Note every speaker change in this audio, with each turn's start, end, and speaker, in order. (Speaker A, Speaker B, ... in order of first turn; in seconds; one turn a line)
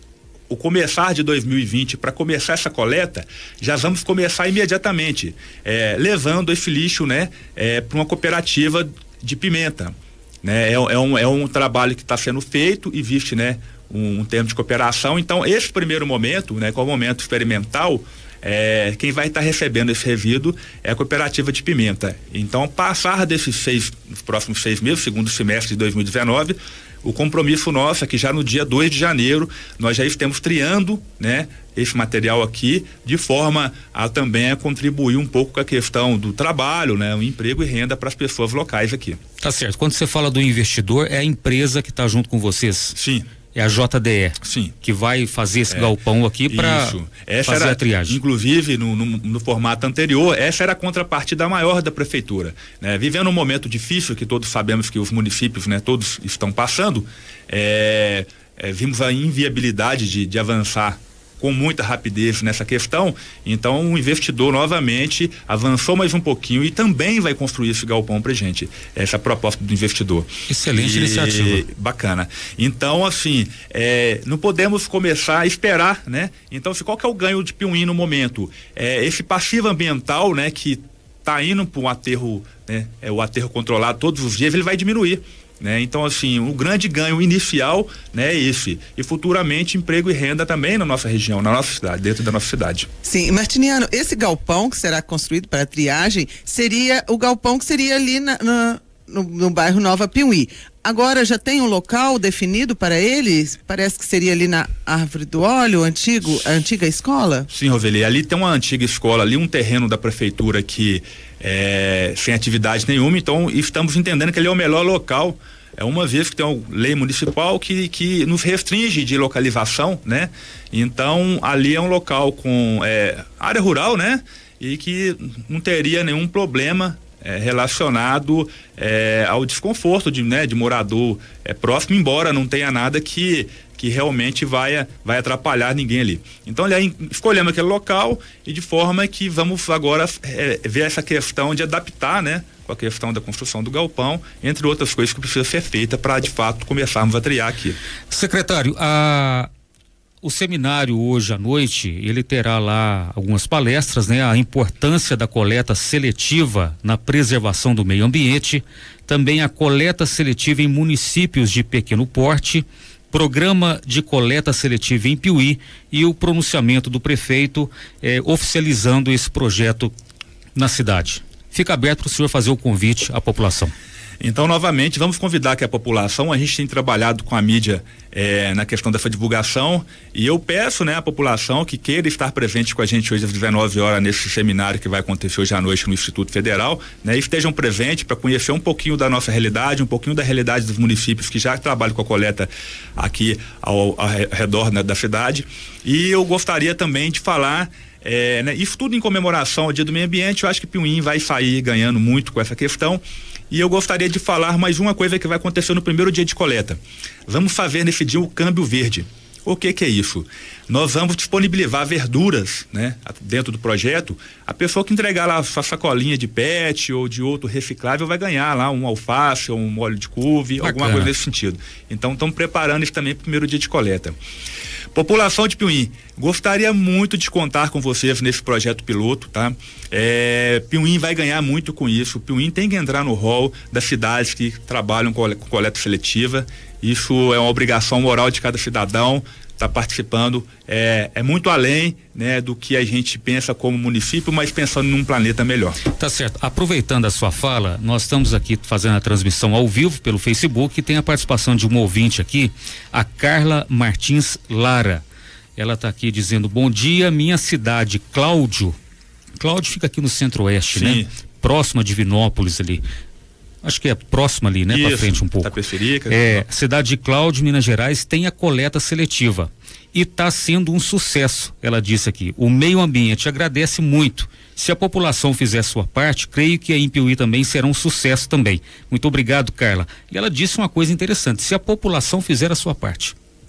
Speaker A: 0.5-39.2
Speaker B: 39.4-42.9
Speaker A: 43.0-43.2
Speaker B: 43.5-48.2
Speaker A: 44.4-44.7
Speaker A: 46.5-92.9
Speaker B: 70.5-71.6
Speaker C: 93.0-107.5
Speaker A: 107.5-147.8
Speaker B: 148.1-149.5
Speaker B: 150.2-169.9
Speaker B: 170.6-173.7
Speaker A: 174.2-224.2
Speaker B: 220.6-221.1
Speaker A: 224.9-245.8
Speaker B: 246.0-255.0
Speaker B: 255.6-258.8
Speaker B: 259.4-262.8
Speaker A: 260.7-261.1
Speaker B: 263.6-265.5
Speaker A: 264.7-266.4
Speaker B: 266.1-283.1